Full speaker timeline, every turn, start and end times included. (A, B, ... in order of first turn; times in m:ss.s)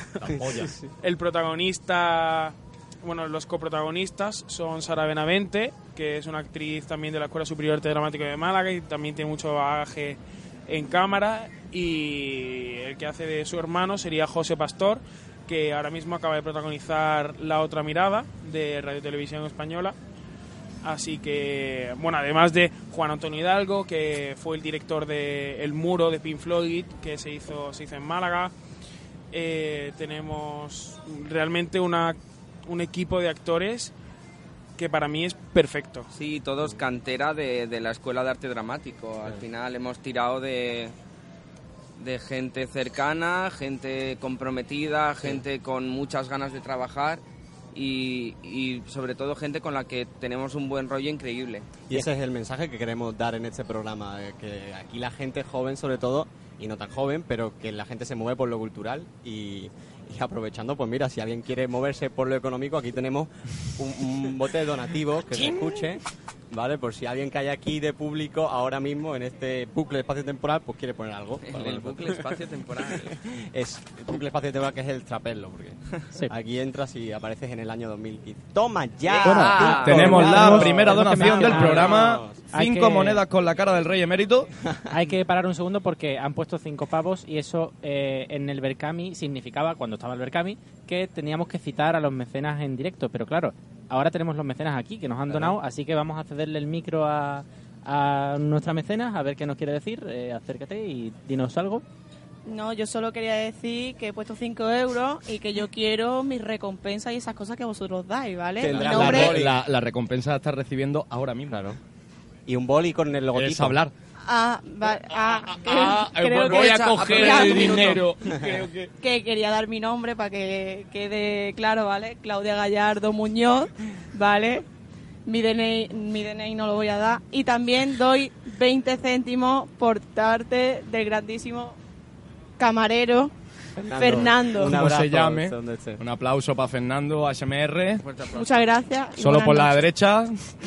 0:00.2-0:00.8 A
0:00.5-0:00.9 B
0:01.0-0:19.9 C
0:20.8-0:28.5 C
0:29.3-0:32.2 C
0:32.7-0:33.9 C
0:34.8-0:36.0 C
0:36.1-0:40.9 D
0:42.0-0:47.2 D
0:47.7-0:52.0 D
0:51.9-1:12.3 B
1:11.5-1:13.1 D
1:12.9-1:22.4 B
1:19.1-1:20.3 D
1:19.2-1:21.9 E
1:19.8-1:24.5 A
1:22.5-1:23.2 E
1:24.9-1:41.8 E
1:35.3-1:35.5 B
1:42.4-1:49.4 F
1:48.6-1:49.6 B
1:48.6-1:51.6 A
1:51.5-1:51.8 B
1:52.5-1:53.9 B
1:53.3-1:53.8 A
1:54.2-1:58.1 F
1:55.1-1:58.9 A
1:56.3-1:58.0 D
1:59.0-2:04.6 F
2:05.2-2:11.8 F
2:12.6-2:13.3 F
2:13.8-2:16.0 B
2:13.9-2:14.7 F
2:14.6-2:18.0 A
2:18.0-2:18.7 D
2:18.3-2:19.9 F
2:19.2-2:20.6 A